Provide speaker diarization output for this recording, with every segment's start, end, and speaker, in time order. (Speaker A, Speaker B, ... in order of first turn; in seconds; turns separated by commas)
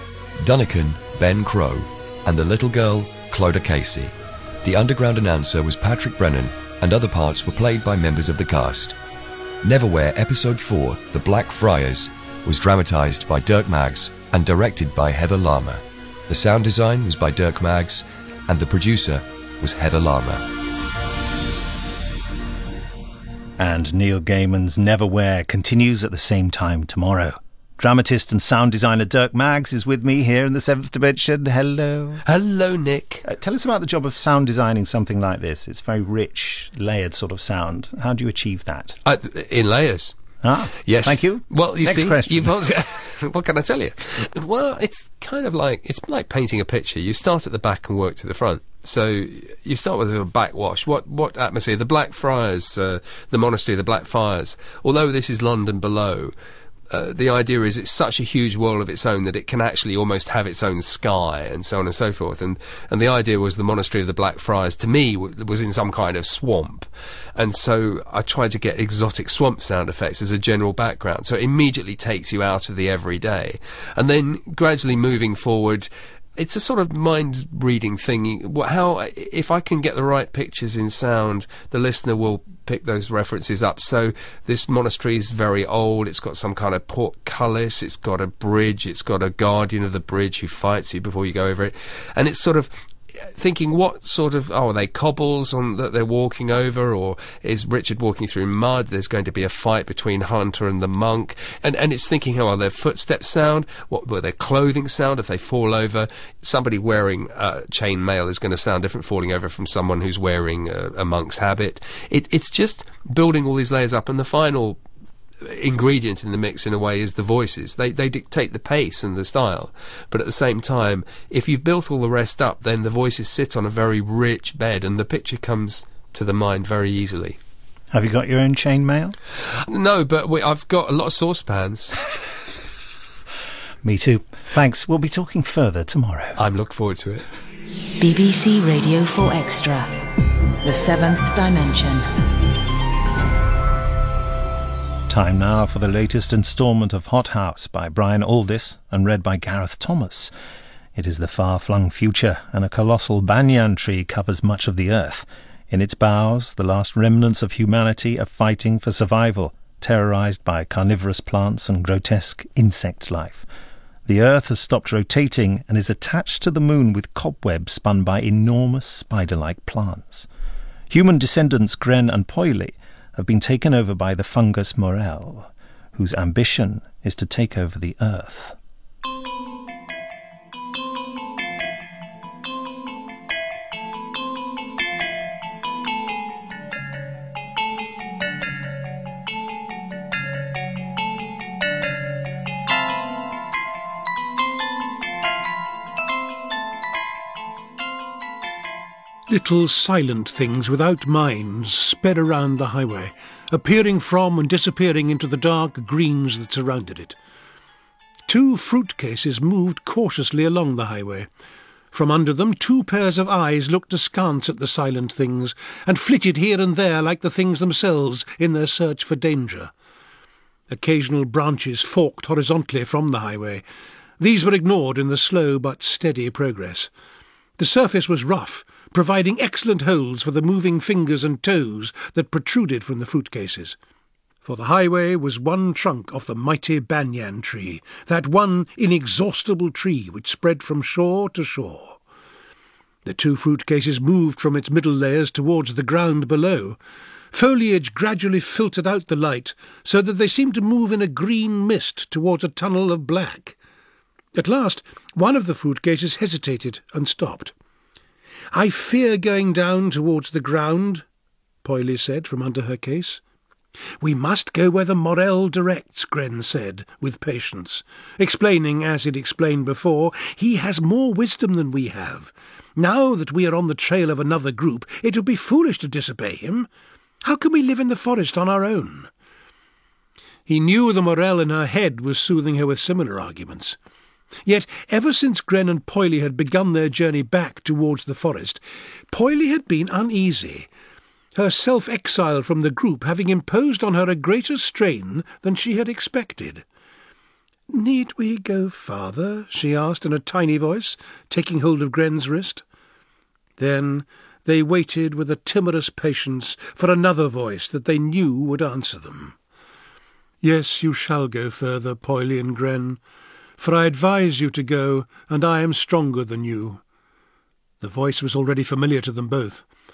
Speaker A: 0.4-8.9, Speaker A: 9.6-20.4, Speaker B: 23.6-32.2, Speaker C: 32.2-33.2, Speaker B: 33.2-39.0, Speaker C: 39.0-40.1, Speaker B: 40.4-42.6, Speaker C: 40.8-56.3, Speaker C: 56.9-92.7, Speaker C: 93.3-114.8, Speaker C: 115.4-127.4, Speaker B: 127.9-129.2, Speaker C: 129.7-131.9, Speaker B: 133.8-136.4, Speaker C: 136.4-137.2, Speaker D: 138.0-139.9, Speaker D: 140.6-142.1, Speaker B: 145.1-150.3, Speaker B: 150.9-163.4, Speaker B: 164.1-170.3, Speaker B: 170.9-178.5, Speaker E: 199.3-207.2, Speaker E: 208.3-211.3, Speaker E: 211.9-219.7, Speaker E: 220.7-223.6, Speaker E: 224.2-226.9, Speaker E: 227.6-233.8, Speaker E: 234.4-242.0, Speaker E: 243.0-246.8, Speaker E: 247.3-253.6, Speaker E: 254.3-257.5, Speaker E: 258.5-261.0, Speaker E: 261.6-263.2, Speaker E: 264.0-276.7, Speaker E: 277.2-279.1, Speaker E: 280.5-283.8, Speaker E: 284.4-290.7, Speaker E: 291.3-296.6, Speaker E: 297.7-302.6, Speaker E: 303.6-309.3, Speaker E: 310.4-313.0, Speaker E: 313.6-316.8, Speaker E: 317.8-319.6